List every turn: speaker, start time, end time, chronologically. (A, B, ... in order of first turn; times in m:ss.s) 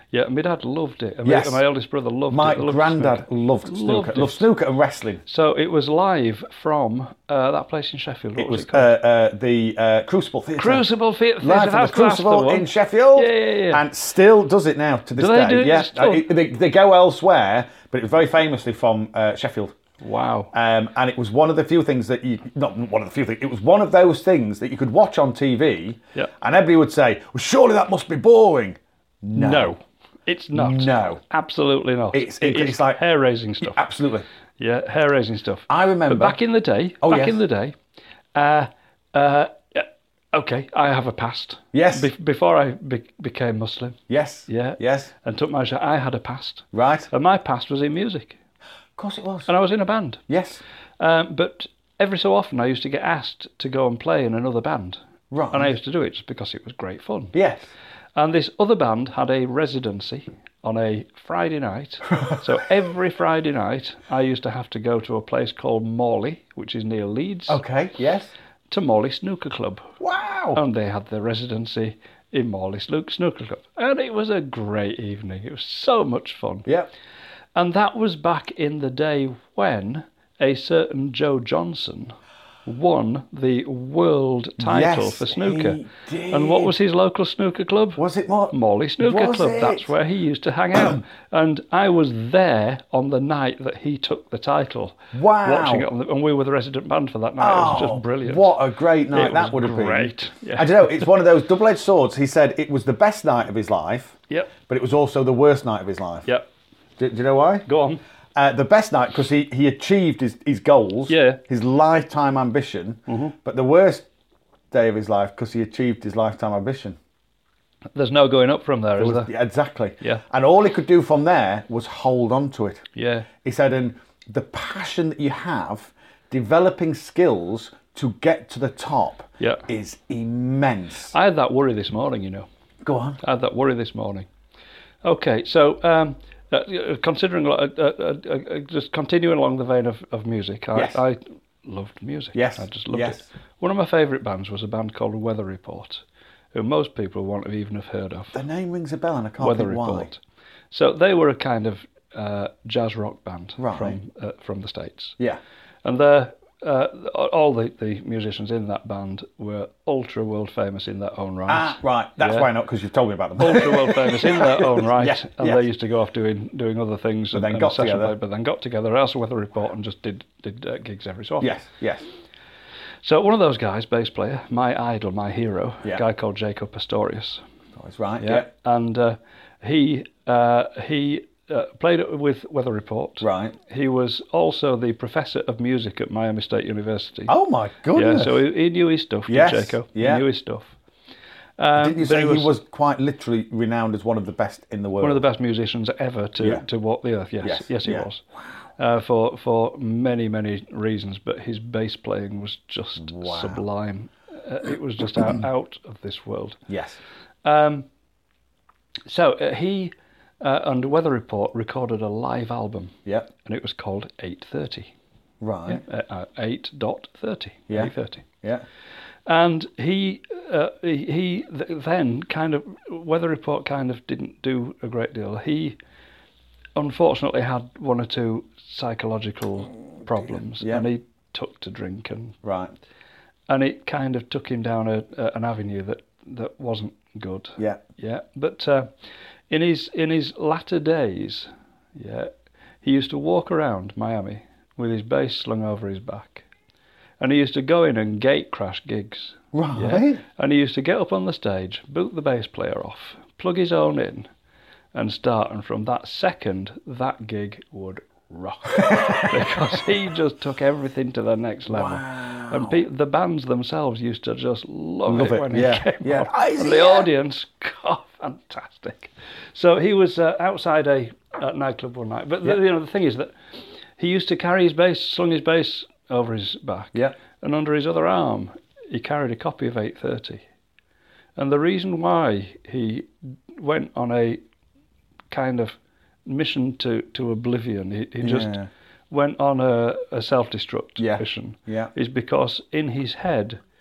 0:00.1-0:04.5 A
0:01.2-0:01.6 B
0:02.3-0:05.2 B
0:05.2-0:08.9 A
0:08.4-0:10.8 B
0:10.6-0:13.8 A
0:11.4-0:19.8 B
0:15.2-0:16.3 A
0:20.0-0:20.5 A
0:20.5-0:29.7 B
0:29.3-0:33.8 A
0:30.5-0:31.2 B
0:32.1-0:33.0 B
0:33.6-0:34.2 B
0:34.6-0:37.8 A
0:35.7-0:36.4 B
0:37.0-0:37.4 B
0:38.3-0:48.4 A
0:41.7-0:42.1 B
0:44.1-0:45.1 B
0:46.7-0:47.1 B
0:49.0-0:49.5 B
0:49.5-0:50.2 A
0:50.3-0:50.6 B
0:51.0-0:55.0 A
0:55.3-0:55.7 B
0:55.5-0:57.3 A
0:57.3-0:57.7 B
0:58.2-1:07.6 A
1:07.5-1:08.3 B
1:08.7-1:09.9 A
1:10.0-1:10.6 B
1:10.5-1:16.7 A
1:17.5-1:38.5 A
1:24.6-1:26.7 B
1:28.0-1:29.9 B
1:30.7-1:31.0 B
1:35.1-1:35.9 B
1:37.4-1:46.3 B
1:39.1-1:41.1 A
1:47.0-1:47.7 B
1:47.6-1:48.0 A
1:48.3-1:54.0 B
1:51.1-1:51.4 A
1:53.1-1:53.3 A
1:54.7-1:57.0 B
1:57.9-1:59.3 A
1:59.0-2:02.8 B
2:03.0-2:03.3 A
2:03.4-2:11.1 B
2:09.4-2:09.6 A
2:11.1-2:12.5 A
2:12.8-2:13.2 B
2:13.2-2:14.3 A
2:15.0-2:28.4 A
2:20.7-2:21.0 B
2:22.3-2:23.3 B
2:28.3-2:30.1 B
2:29.4-2:30.2 A
2:30.7-2:35.2 A
2:33.6-2:34.0 B
2:35.8-2:42.5 A
2:41.5-2:45.6 B
2:43.4-2:51.5 A
2:47.3-2:48.1 B
2:51.4-2:52.0 B
2:53.0-2:57.4 A
2:57.8-2:58.5 B
2:58.2-3:07.3 A
3:03.2-3:03.5 B
3:07.3-3:08.4 B
3:07.9-3:10.7 A
3:09.3-3:10.2 B
3:11.6-3:12.5 A
3:11.8-3:15.2 B
3:15.0-3:18.2 A
3:17.4-3:18.1 B
3:18.8-3:26.6 A
3:23.0-3:23.6 B
3:26.7-3:27.0 B
3:27.4-3:27.9 A
3:29.1-3:34.9 A
3:35.4-3:35.8 B
3:35.7-3:38.2 A
3:37.7-3:38.6 B
3:39.2-3:45.8 A
3:46.8-3:52.4 A
3:50.3-3:50.8 B
3:52.4-3:52.7 B
3:53.5-3:58.9 A
3:59.5-4:02.3 A
4:02.8-4:06.4 A
4:07.2-4:14.3 A
4:09.5-4:10.2 B
4:14.9-4:33.3 A
4:18.8-4:19.3 B
4:21.7-4:22.8 B
4:25.1-4:27.1 B
4:34.0-4:40.4 A
4:41.4-4:44.4 A
4:45.3-4:48.6 A
4:48.2-4:48.7 B
4:49.1-4:53.6 A
4:51.0-4:51.9 B